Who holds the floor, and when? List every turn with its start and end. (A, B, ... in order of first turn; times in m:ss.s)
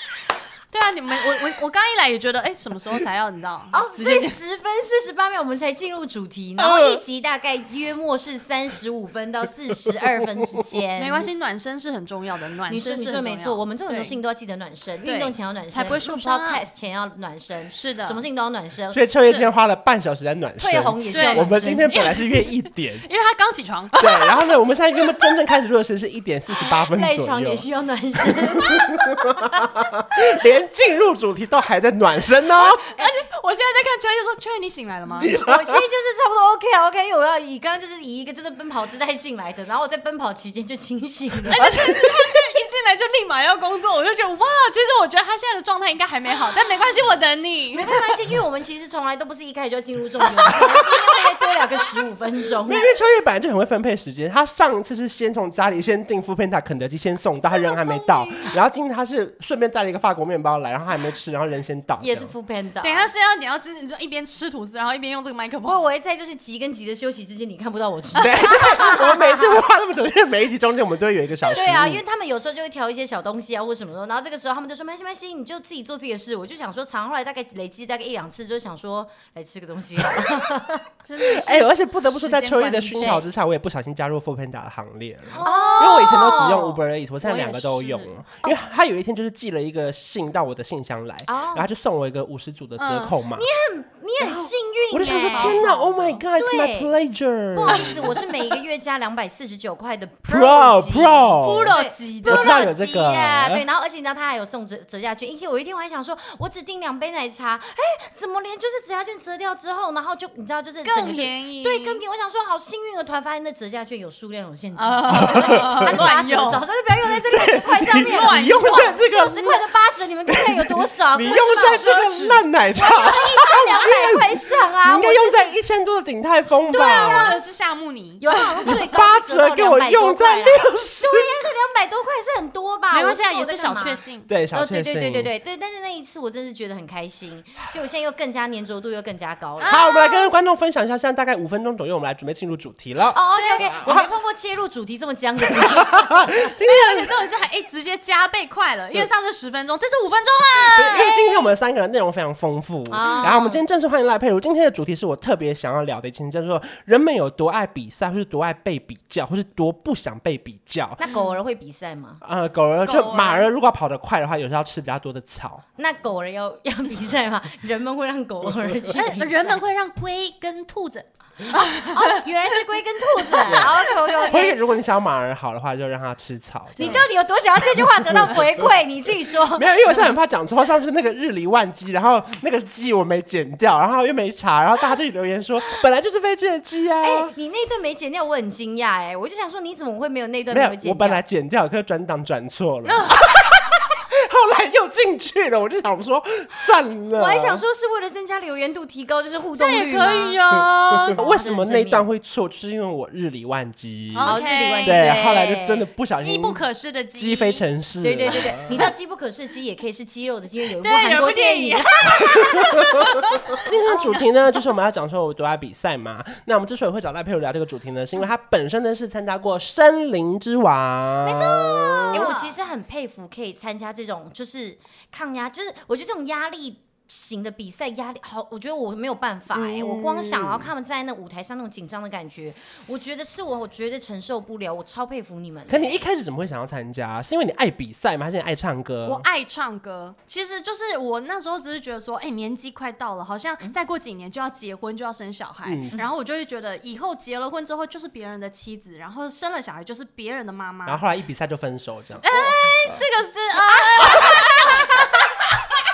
0:00.7-0:04.4 A
0:03.7-0:11.3 B
0:06.6-0:07.0 C
0:11.0-0:14.2 A
0:12.7-0:19.0 B
0:15.0-0:16.6 A
0:17.7-0:18.2 A
0:18.9-0:23.1 C
0:20.6-0:22.2 B
0:21.1-0:22.3 A
0:23.0-0:24.4 A
0:24.0-0:27.6 C
0:26.6-0:29.6 B
0:28.2-0:32.8 C
0:32.6-0:35.3 A
0:35.2-0:35.8 C
0:35.2-0:41.7 B
0:41.5-0:42.2 C
0:41.5-0:48.0 A
0:47.7-0:52.9 B
0:52.6-1:02.3 C
0:57.6-0:58.5 A
1:02.0-1:03.1 B
1:02.8-1:05.8 A
1:05.6-1:09.5 B
1:08.2-1:12.0 C
1:08.2-1:08.5 A
1:11.5-1:20.8 B
1:21.0-1:23.2 A
1:21.2-1:33.4 C
1:25.3-1:28.1 A
1:25.4-1:26.8 B
1:31.3-1:31.6 B
1:32.8-1:33.2 A
1:33.3-1:36.9 B
1:34.2-1:34.5 A
1:34.9-1:38.2 C
1:35.1-1:35.9 A
1:37.5-2:01.9 B
1:37.7-1:38.4 A
1:40.3-1:43.6 C
1:41.4-1:42.7 A
1:50.8-1:52.0 A
1:54.8-1:56.6 A
1:55.2-1:56.0 C
1:57.1-1:59.7 C
1:57.9-1:59.0 A
2:00.3-2:07.3 C
2:01.3-2:02.4 A
2:02.7-2:05.5 B
2:06.7-2:08.8 A
2:06.7-2:07.4 B
2:08.2-2:14.0 B
2:08.6-2:11.4 C
2:12.9-2:14.3 A
2:14.3-2:15.3 C
2:14.5-2:19.8 B
2:19.6-2:20.3 A
2:19.6-2:23.2 C
2:23.1-2:26.4 B
2:23.4-2:23.7 A
2:23.8-2:24.1 C
2:25.4-2:27.1 C
2:26.6-2:31.5 A
2:30.6-2:41.0 C
2:30.7-2:31.2 B
2:32.9-2:33.6 B
2:41.0-2:42.2 B
2:42.2-2:45.6 C
2:42.8-2:43.5 A
2:45.8-2:49.6 B
2:48.9-2:52.6 A
2:51.5-2:54.6 B
2:53.1-2:54.6 A
2:53.5-2:57.0 C
2:56.8-3:00.1 B
2:56.8-2:57.1 A
2:59.5-3:07.3 C
3:07.0-3:11.2 B
3:10.5-3:17.6 C
3:12.8-3:13.2 A
3:17.1-3:22.0 B
3:19.6-3:21.2 A
3:21.1-3:26.6 C
3:24.1-3:25.2 A
3:24.2-3:25.9 B
3:26.1-3:27.6 A
3:27.1-3:28.9 C
3:28.0-3:33.2 B
3:28.3-3:28.8 A
3:30.7-3:33.6 A
3:33.5-3:42.3 C
3:33.7-3:34.2 B
3:41.2-3:42.6 A
3:42.1-3:56.0 B
3:49.5-3:50.7 C
3:55.7-3:59.3 C
3:59.0-4:11.0 A
4:05.6-4:05.9 C
4:10.8-4:12.9 C
4:12.2-4:15.5 A